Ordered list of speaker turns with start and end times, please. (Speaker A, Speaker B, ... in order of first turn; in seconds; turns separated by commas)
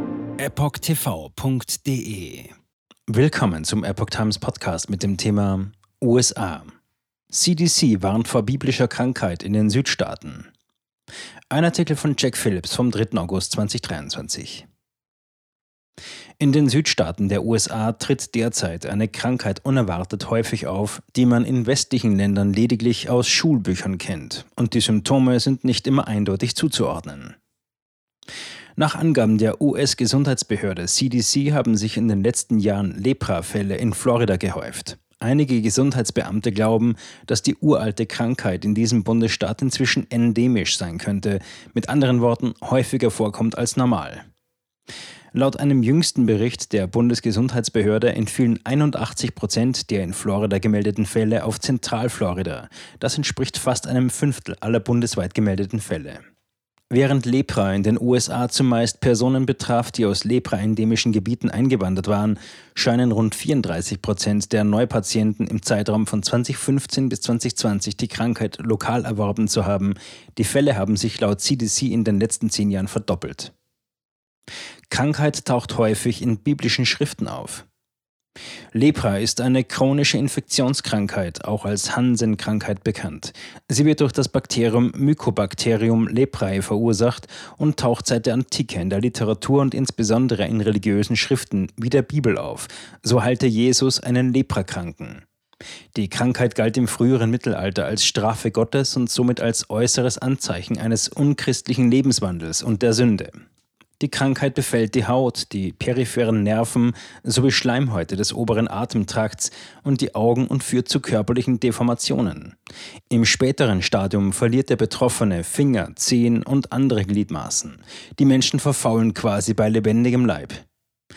Speaker A: 0.4-2.5, Speaker A: 3.1-6.7, Speaker A: 7.3-10.5, Speaker A: 11.5-14.7, Speaker A: 16.4-27.4, Speaker A: 28.8-44.2, Speaker A: 45.3-56.2, Speaker A: 56.9-73.5, Speaker A: 74.9-77.7, Speaker A: 78.7-95.2, Speaker A: 95.9-103.4, Speaker A: 104.0-112.5, Speaker A: 113.1-120.6